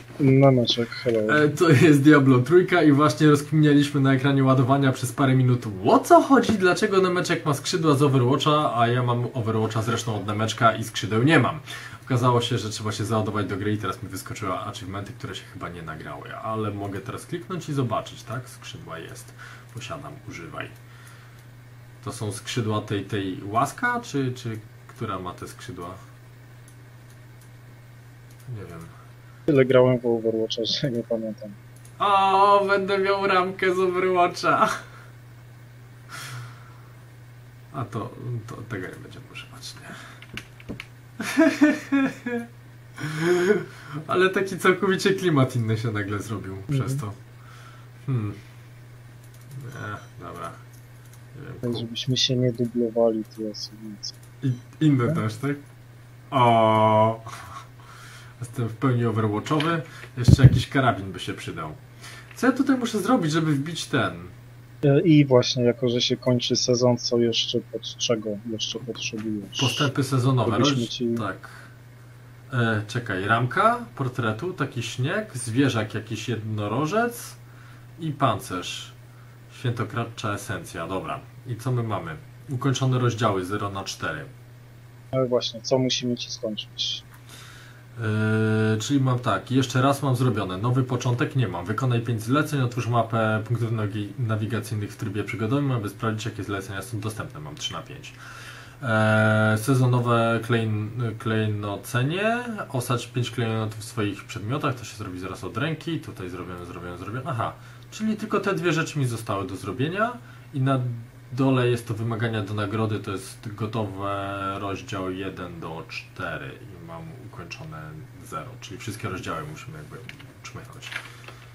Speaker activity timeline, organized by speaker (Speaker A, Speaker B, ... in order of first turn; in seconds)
Speaker A: 0.2-1.4, 29.5-31.6, 46.7-47.0, 51.6-54.1, 64.8-69.9, 70.5-71.2, 85.1-87.0
Speaker B: 1.3-20.8, 22.0-26.0, 28.5-28.9, 32.0-34.8, 37.7-40.0, 41.2-47.2, 48.0-48.4, 49.5-50.6, 51.3-51.9, 54.4-55.6, 56.3-57.6, 58.4-61.8, 62.3-64.3, 69.6-71.7, 72.5-77.4, 78.0-79.0, 79.5-84.3, 88.0-98.2, 98.8-121.0